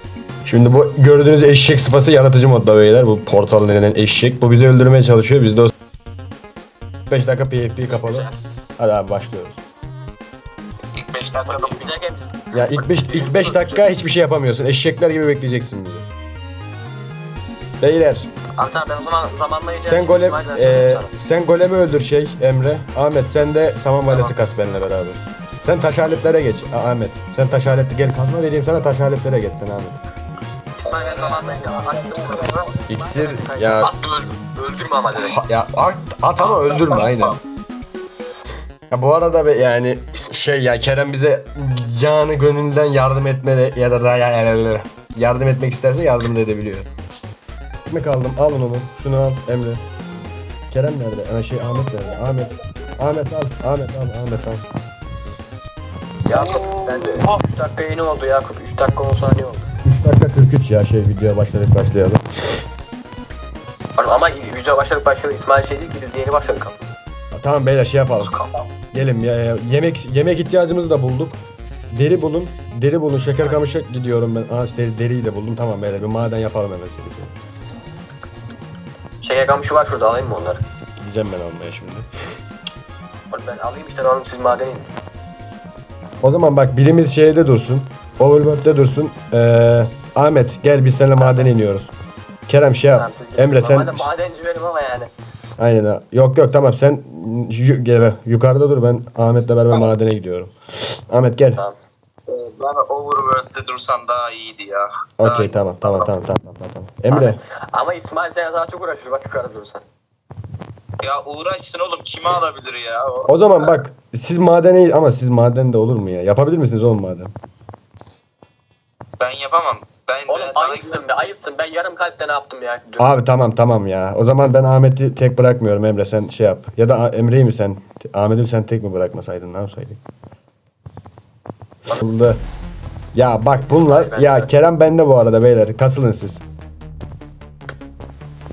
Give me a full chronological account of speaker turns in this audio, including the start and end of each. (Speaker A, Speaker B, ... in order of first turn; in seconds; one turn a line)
Speaker A: 0.4-5.7
Speaker A: 7.1-8.3
Speaker B: 7.8-8.4
Speaker A: 8.8-9.6
Speaker C: 10.9-11.8
Speaker B: 11.4-13.8
Speaker A: 12.5-16.0
Speaker A: 17.8-18.3
Speaker B: 18.6-21.1
Speaker A: 19.8-30.0
Speaker B: 24.1-24.3
Speaker B: 30.8-35.4
Speaker A: 32.9-33.9
Speaker A: 35.2-37.4
Speaker A: 38.9-46.9
Speaker A: 47.9-49.8
Speaker A: 50.7-54.6
Speaker B: 56.2-59.7
Speaker C: 56.4-57.3
Speaker A: 59.9-62.2
Speaker B: 64.0-66.9
Speaker A: 67.3-68.3
Speaker A: 68.9-71.4
Speaker A: 71.9-77.3
Speaker B: 79.2-80.6
Speaker A: 81.0-82.1
Speaker B: 83.3-84.9
Speaker A: 86.2-91.9
Speaker B: 91.2-91.5
Speaker A: 92.5-94.1
Speaker B: 92.9-95.1
Speaker A: 95.6-100.5
Speaker A: 101.1-101.6
Speaker C: 102.3-106.1
Speaker A: 105.2-107.4
Speaker B: 107.1-109.8
Speaker C: 111.0-113.7
Speaker A: 113.3-117.3
Speaker C: 119.2-121.1
Speaker B: 120.3-123.1
Speaker A: 123.0-130.0
Speaker A: 131.9-132.4
Speaker A: 133.1-136.4
Speaker B: 133.6-134.5